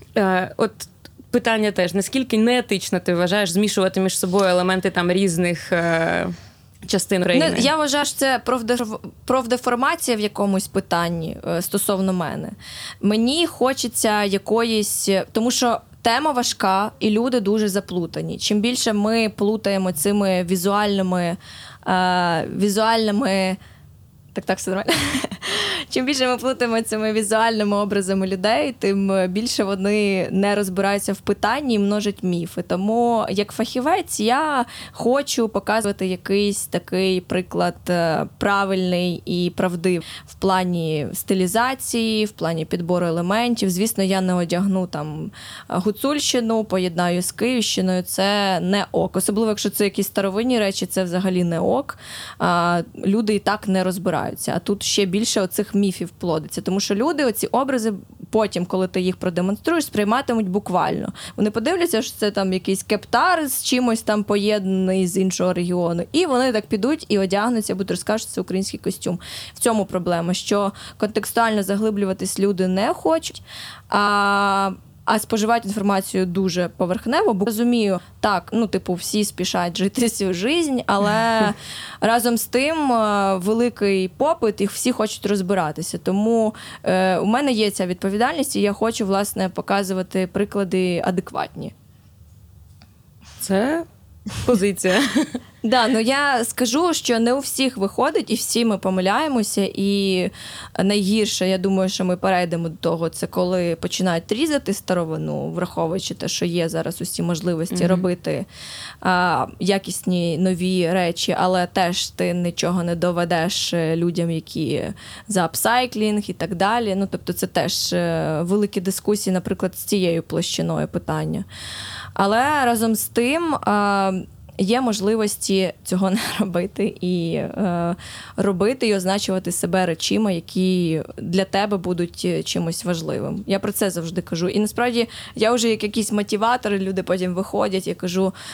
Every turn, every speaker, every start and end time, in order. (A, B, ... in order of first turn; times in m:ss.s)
0:00.2-0:07.7 A
0:07.3-0:23.6 B
0:24.4-1:31.7 B
1:33.4-1:33.9 A
1:34.4-1:35.4 A
1:35.6-1:48.5 B
1:47.7-1:48.0 A
1:49.0-2:01.4 B
2:02.2-2:18.3 B